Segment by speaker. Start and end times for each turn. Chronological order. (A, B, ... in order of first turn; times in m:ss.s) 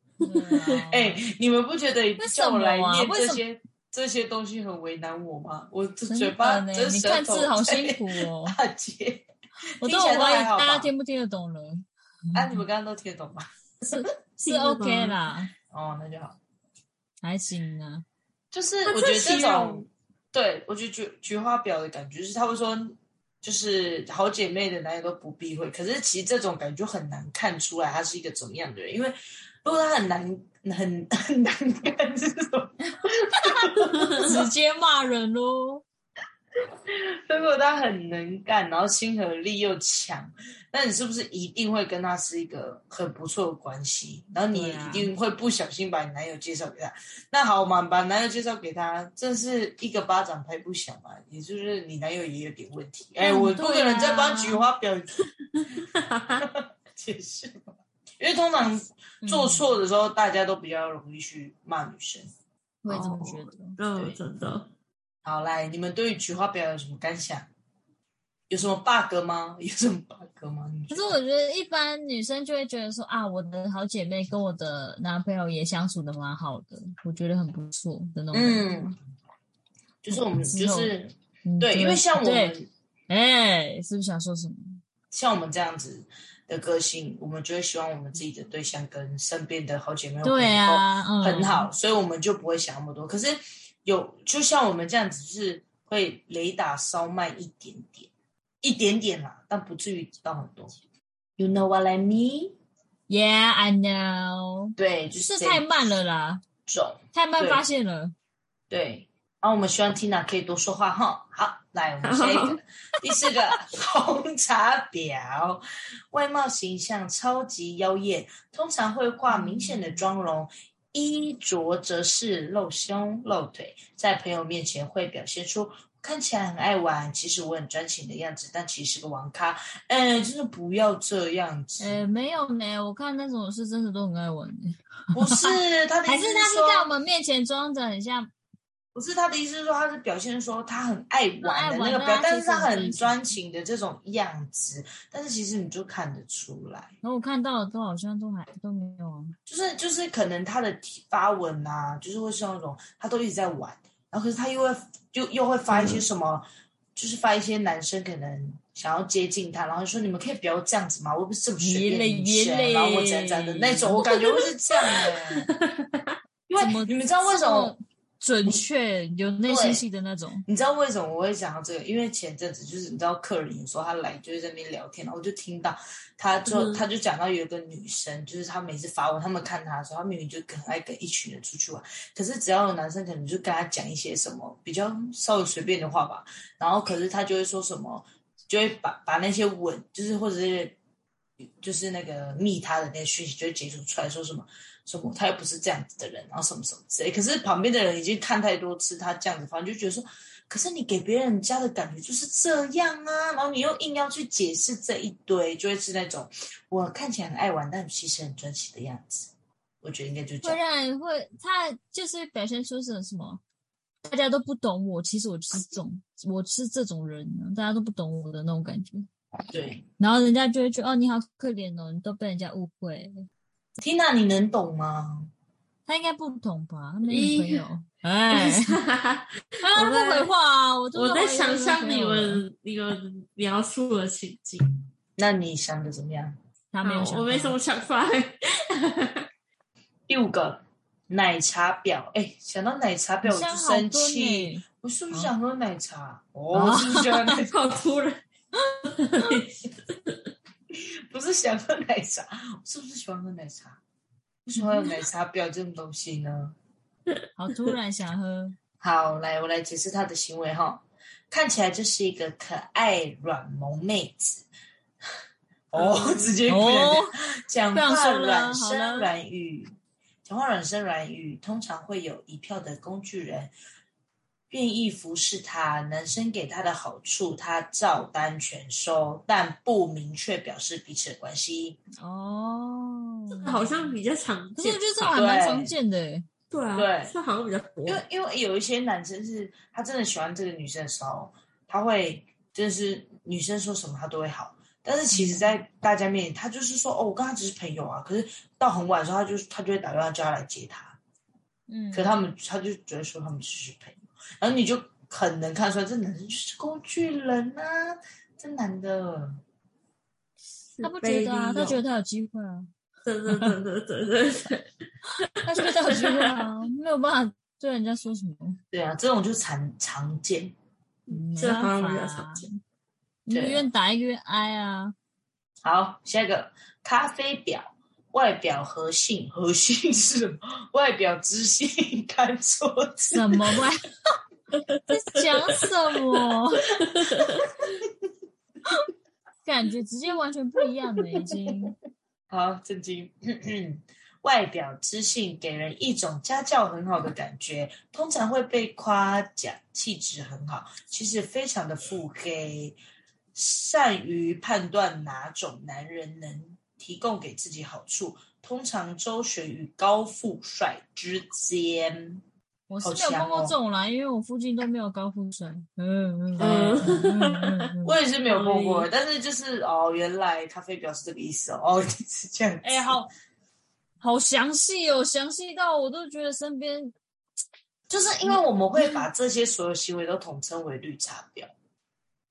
0:00.2-0:01.2 A
0:00.9-0:09.3 B
0:02.2-0:03.4 A
0:06.1-0:08.6 A
0:09.8-0:10.9 B
0:09.8-0:11.9 A
0:12.3-0:13.5 B
0:13.8-0:15.5 A
0:14.4-0:15.2 C
0:15.7-0:16.4 B
0:17.2-0:18.0 A
0:18.5-0:34.4 B
0:18.8-0:19.8 C
0:34.0-0:34.3 C
0:34.2-0:35.8 A
0:36.9-0:55.2 B
0:44.5-0:45.1 A
0:53.2-0:54.6 A
0:55.8-0:56.4 C
0:56.4-1:02.3 B
0:59.2-0:59.8 A
1:02.8-1:03.8 A
1:02.9-1:04.7 C
1:05.2-1:07.5 B
1:08.5-1:11.2 B
1:10.9-1:18.9 A
1:18.3-1:19.0 B
1:20.0-1:22.7 B
1:20.1-1:20.9 A
1:21.4-1:22.6 A
1:23.1-1:24.8 A
1:25.1-1:38.1 B
1:30.2-1:31.7 A
1:38.6-1:40.7 B
1:41.4-1:42.6 B
1:43.1-1:46.4 A
1:44.8-1:45.6 B
1:46.6-1:47.6 B
1:47.1-1:48.1 A
1:48.7-2:12.0 B
1:52.0-1:52.6 C
1:59.3-2:00.0 A
2:11.8-2:15.6 A
2:15.1-2:16.9 B
2:16.1-2:18.3 A
2:18.9-2:26.9 B
2:21.4-2:23.4 A
2:27.0-2:29.4 A
2:29.5-2:36.4 B
2:35.7-2:36.0 C
2:37.0-2:45.4 B
2:41.6-2:44.1 A
2:44.0-2:44.5 C
2:45.5-2:46.0 C
2:46.5-2:47.8 B
2:46.6-2:50.4 A
2:49.5-2:49.8 B
2:50.5-3:10.8 B
2:56.5-2:56.9 C
3:11.4-3:29.3 B
3:29.8-3:30.6 B
3:30.4-3:33.4 A
3:34.0-3:39.1 A
3:39.5-3:39.8 B
3:40.0-3:43.2 A
3:43.8-3:45.3 B
3:45.9-3:48.8 A
3:47.1-3:47.6 C
3:48.4-3:49.2 C
3:49.6-3:52.4 A
3:49.8-3:50.3 C
3:51.0-3:54.7 C
3:55.2-3:56.4 B
3:56.7-3:57.6 A
3:56.8-3:59.1 C
4:00.1-4:07.5 B
4:03.2-4:05.3 A
4:06.5-4:07.3 A
4:07.5-4:08.2 C
4:09.0-4:09.5 C
4:10.7-4:13.8 B
4:14.5-4:16.6 B
4:14.6-4:14.8 A
4:17.4-4:18.6 A
4:18.8-4:24.5 B
4:25.7-4:33.5 B
4:25.8-4:26.6 C
4:26.5-4:27.1 A
4:27.7-4:29.1 A
4:34.5-4:41.8 B
4:42.0-4:44.0 A
4:43.4-4:44.8 C
4:44.6-4:46.3 A
4:45.0-4:45.7 B
4:46.5-4:48.0 C
4:46.8-4:47.1 B
4:47.9-5:01.0 B
4:55.1-4:55.5 A
5:01.7-5:02.2 A
5:01.9-5:09.4 B
5:10.8-5:11.8 C
5:10.8-5:12.7 A
5:13.1-5:14.6 C
5:13.3-5:13.6 A
5:15.4-5:18.6 A
5:18.7-5:20.5 B
5:21.1-5:22.6 A
5:21.1-5:22.4 C
5:23.2-5:24.9 A
5:23.3-5:23.6 B
5:25.6-5:33.6 B
5:33.1-5:33.8 A
5:34.9-5:36.7 A
5:36.8-5:37.5 C
5:39.4-5:41.8 A
5:42.3-5:52.8 B
5:53.3-6:02.2 B
6:02.7-6:08.8 A
6:02.8-6:03.6 B
6:06.4-6:07.4 C
6:06.4-6:06.8 B
6:07.8-6:13.0 B
6:12.6-6:13.1 A
6:14.0-6:16.9 A
6:17.9-6:21.5 B
6:18.3-6:19.1 A